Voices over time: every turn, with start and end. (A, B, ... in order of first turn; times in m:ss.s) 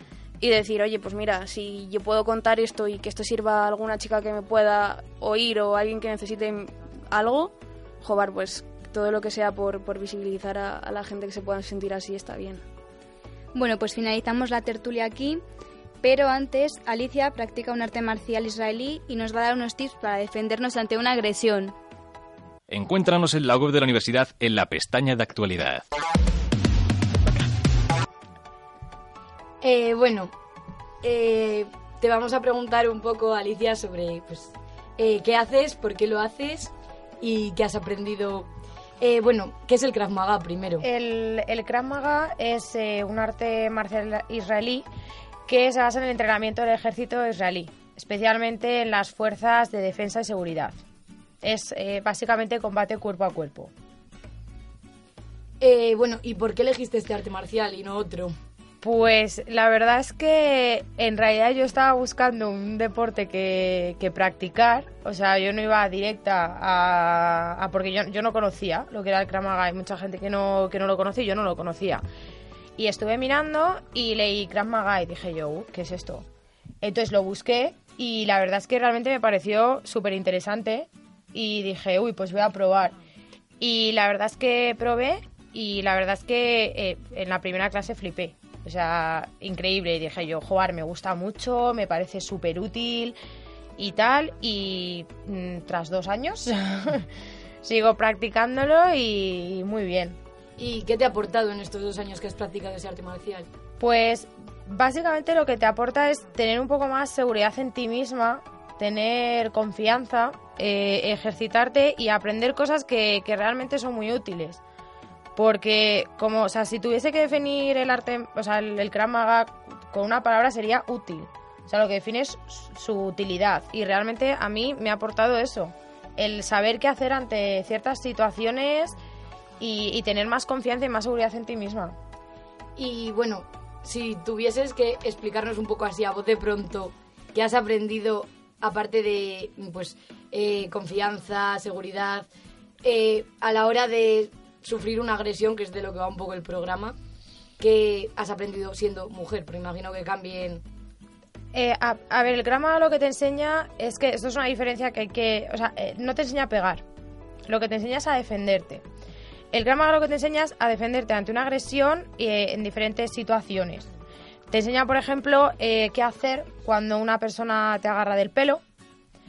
0:00.4-0:12.6 A
0:13.6-0:15.4 B
0:16.0-0:21.8 B
0:22.7-0:25.8 C
0:29.6-0:30.3 D
0:31.0-0:38.5 D
0:39.0-0:40.8 D
0:40.8-0:44.9 E
0:45.5-0:50.8 E
0:51.4-0:53.7 E
0:55.6-0:58.3 D
0:58.8-1:12.0 E
1:12.8-1:16.3 E
1:16.8-1:23.0 E
1:23.6-1:33.2 E
1:33.8-1:37.1 E
1:37.6-1:40.2 E
1:40.6-1:43.5 D
1:43.8-1:54.6 E
1:55.4-2:09.0 E
2:09.6-2:12.0 E
2:12.8-2:22.3 D
2:22.8-2:27.0 D
2:27.6-2:30.6 D
2:31.5-2:36.8 E
2:37.4-2:38.8 E
2:39.5-2:43.9 E
2:44.5-2:48.6 E